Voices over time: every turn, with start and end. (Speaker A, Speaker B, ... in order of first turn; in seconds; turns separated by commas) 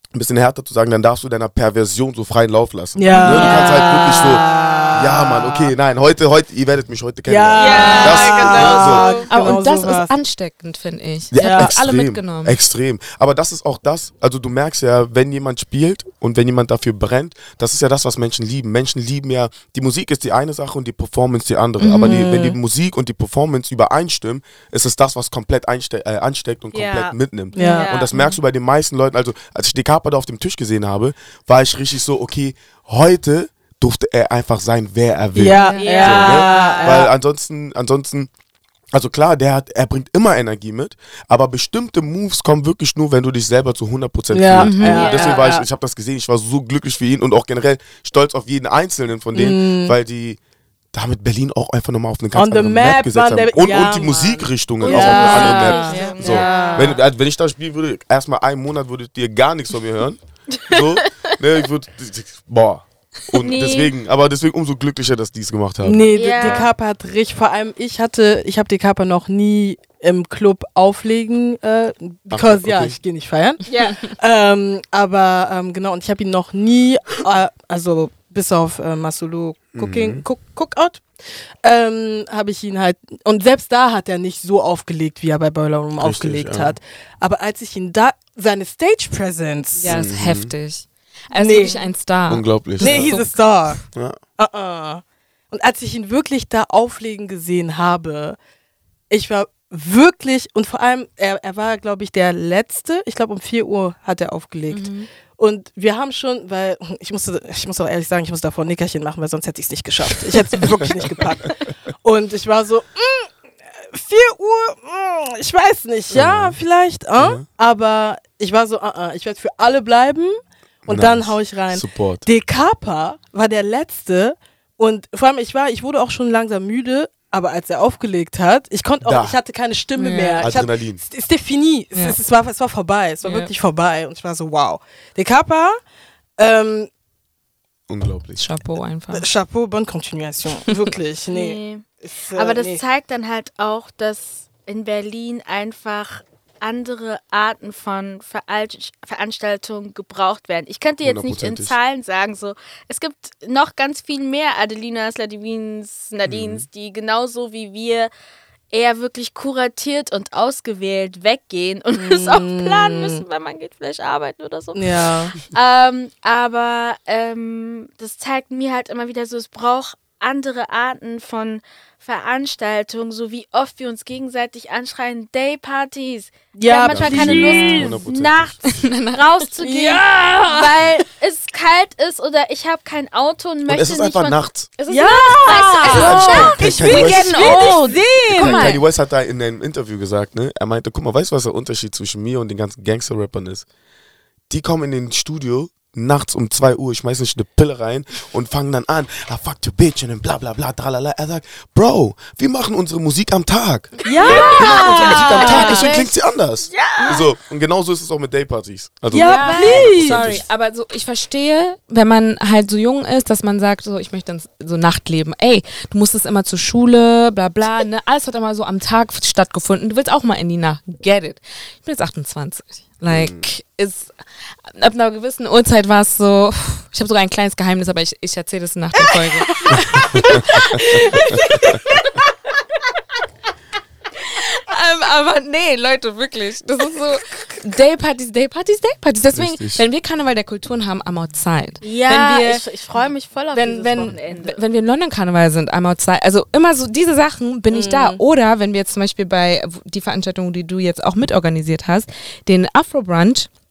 Speaker A: 0.1-9.2, Speaker B: 3.0-5.7, Speaker C: 3.1-3.6, Speaker D: 3.4-3.7, Speaker B: 7.3-10.1, Speaker D: 7.5-9.3, Speaker C: 7.8-8.2, Speaker C: 9.3-12.6, Speaker A: 11.3-38.3, Speaker B: 11.4-11.8, Speaker C: 21.8-22.3, Speaker B: 22.0-22.6, Speaker D: 26.7-28.1, Speaker B: 27.6-27.9, Speaker C: 28.1-28.4, Speaker B: 35.4-37.1, Speaker C: 35.5-36.3, Speaker D: 35.5-37.1, Speaker A: 38.9-50.4, Speaker B: 44.3-45.6, Speaker C: 44.5-45.2, Speaker D: 44.9-45.6, Speaker B: 49.3-50.0, Speaker A: 50.9-66.7, Speaker B: 52.4-57.0, Speaker D: 54.8-57.0, Speaker C: 55.1-56.6, Speaker D: 60.6-61.1, Speaker D: 63.3-63.9, Speaker B: 65.8-90.0, Speaker D: 66.1-66.7, Speaker A: 72.3-73.0, Speaker D: 73.7-74.0, Speaker A: 79.8-80.2, Speaker A: 86.0-86.8, Speaker C: 89.8-93.8, Speaker A: 89.9-90.5, Speaker B: 91.3-91.8, Speaker A: 92.3-93.2, Speaker B: 92.8-93.8, Speaker A: 93.9-94.2, Speaker B: 94.4-98.4, Speaker B: 99.1-135.8, Speaker C: 104.7-105.1, Speaker A: 110.6-110.8, Speaker A: 116.1-116.6, Speaker A: 117.2-117.5, Speaker A: 120.9-122.3, Speaker A: 129.0-129.4, Speaker C: 129.9-130.5, Speaker A: 130.4-131.0, Speaker C: 133.2-133.5, Speaker B: 136.4-136.9, Speaker A: 137.9-138.5, Speaker C: 138.4-139.3, Speaker B: 139.1-142.8, Speaker D: 141.3-158.1, Speaker A: 151.0-151.8, Speaker A: 156.3-156.7, Speaker D: 158.7-184.4, Speaker B: 161.9-163.2, Speaker B: 164.8-165.3, Speaker B: 176.6-177.9, Speaker A: 176.9-178.6, Speaker C: 178.7-179.5, Speaker B: 179.6-180.8, Speaker A: 183.7-184.7, Speaker C: 184.8-188.8, Speaker B: 184.9-188.7, Speaker D: 185.0-187.8, Speaker A: 185.8-193.7, Speaker A: 194.5-210.4, Speaker B: 204.1-205.9, Speaker D: 204.1-205.8, Speaker C: 205.1-206.1, Speaker D: 206.7-207.3, Speaker B: 209.1-210.4, Speaker C: 209.1-231.9, Speaker A: 223.1-223.5, Speaker A: 229.7-231.1, Speaker B: 230.9-231.8, Speaker C: 234.2-242.7, Speaker A: 239.4-239.8, Speaker D: 241.8-244.6, Speaker C: 243.5-253.5, Speaker B: 247.7-248.2